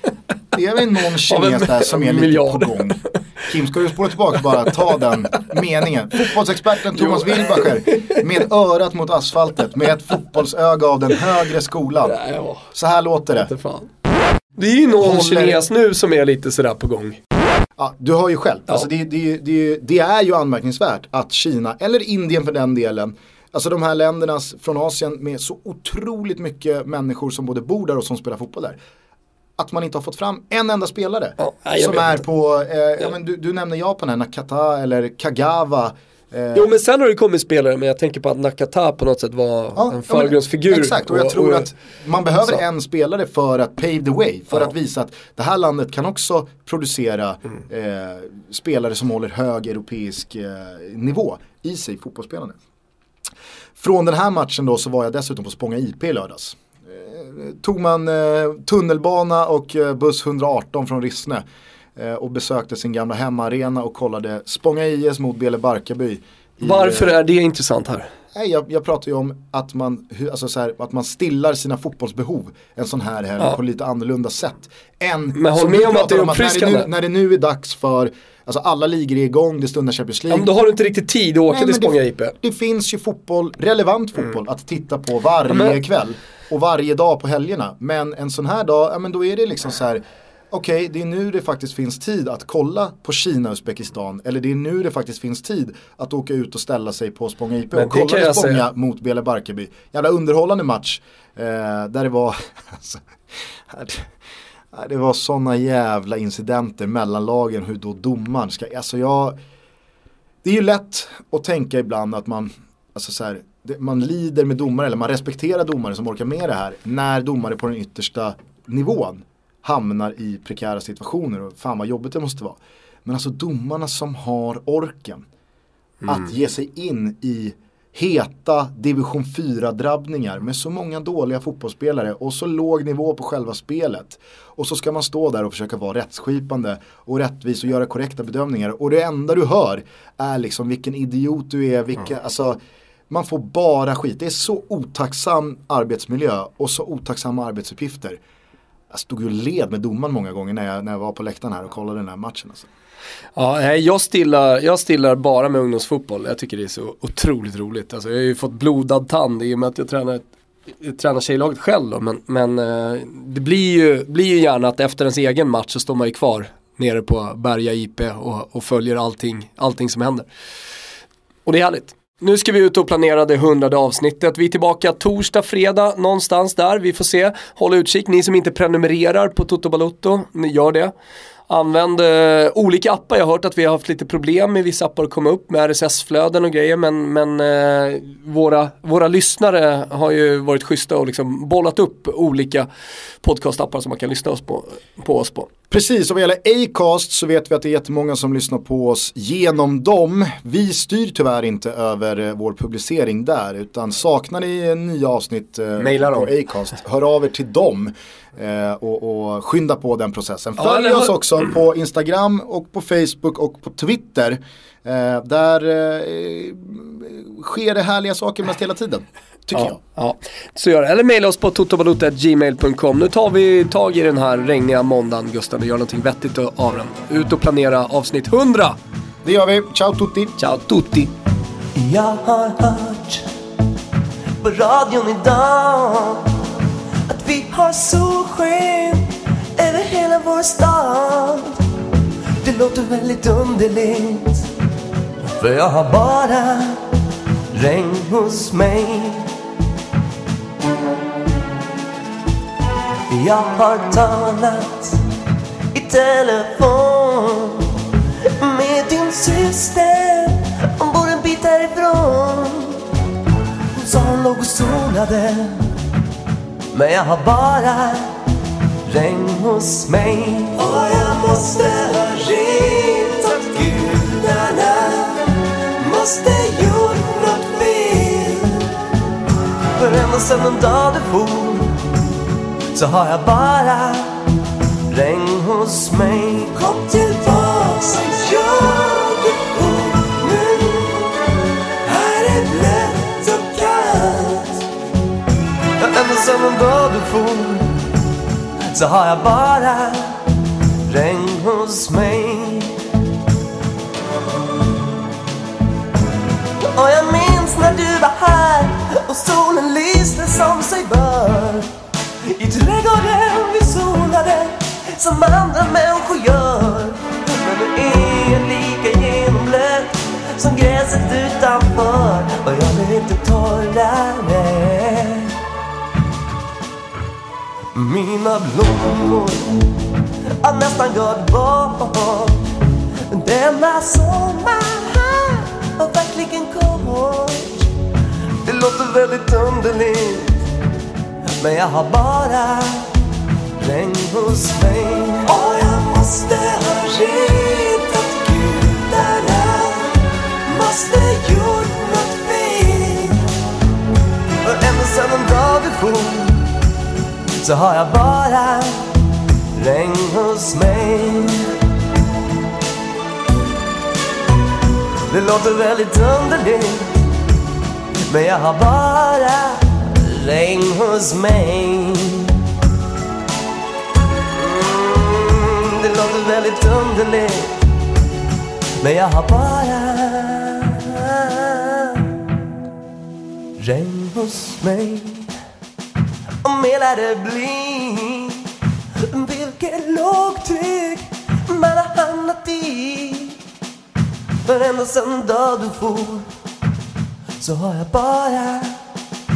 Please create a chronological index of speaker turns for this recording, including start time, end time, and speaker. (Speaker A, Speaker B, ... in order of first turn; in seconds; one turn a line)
Speaker A: 0.5-12.2
Speaker B: 1.3-3.2
Speaker B: 6.9-8.2
Speaker B: 12.0-12.6
Speaker A: 12.7-13.5
Speaker B: 13.4-13.9
Speaker B: 14.6-17.2
Speaker A: 14.9-15.6
Speaker A: 17.8-28.8
Speaker A: 29.6-36.7
Speaker B: 31.4-32.2
Speaker B: 36.5-41.7
Speaker A: 39.7-52.5
Speaker A: 53.8-61.4
Speaker A: 62.0-67.1
Speaker B: 66.6-68.1
Speaker A: 68.3-80.5
Speaker B: 75.3-76.9
Speaker B: 80.3-82.3
Speaker A: 81.5-103.0
Speaker B: 85.5-85.8
Speaker B: 97.7-98.6
Speaker A: 103.7-104.1
Speaker A: 104.7-109.4
Speaker A: 110.4-125.2
Speaker A: 126.0-142.6
Speaker A: 143.1-148.2
Speaker A: 148.9-152.7
Speaker B: 153.3-160.2
Speaker B: 160.8-170.3
Speaker B: 171.4-180.9
Speaker B: 181.5-192.7
Speaker B: 193.2-195.5
Speaker A: 195.7-219.8
Speaker B: 205.8-206.3
Speaker B: 210.6-211.2
Speaker B: 219.5-228.8
Speaker A: 229.2-230.3
Speaker B: 230.4-231.1
Speaker C: 231.7-233.3
Speaker C: 234.4-236.3
Speaker C: 237.1-241.6
Speaker C: 242.4-244.4
Speaker C: 245.4-246.8
Speaker C: 247.5-249.3
Speaker C: 253.1-255.0
Speaker C: 255.7-257.7
Speaker C: 258.4-262.8
Speaker C: 263.7-265.7
Speaker C: 266.7-268.1
Speaker C: 268.9-278.7
Speaker C: 279.7-281.8
Speaker C: 282.7-284.3
Speaker C: 284.9-291.3
Speaker C: 291.8-294.6
Speaker C: 295.8-297.8
Speaker C: 298.7-300.3
Speaker C: 300.9-302.8
Speaker C: 306.6-311.7
Speaker C: 312.3-325.3
Speaker C: 327.7-329.7
Speaker C: 330.4-332.4
Speaker C: 333.1-337.7
Speaker C: 338.4-340.4
Speaker C: 341.4-342.9
Speaker C: 343.6-353.3
Speaker C: 354.4-356.5
Speaker C: 357.4-358.9
Speaker C: 359.6-361.5
Speaker C: 365.1-367.0
Speaker C: 368.1-372.4
Speaker C: 374.3-377.6
Speaker C: 378.8-382.0
Speaker C: 383.6-385.3
Speaker C: 386.4-388.5
Speaker C: 389.1-393.4
Speaker C: 394.4-396.3
Speaker C: 397.4-398.8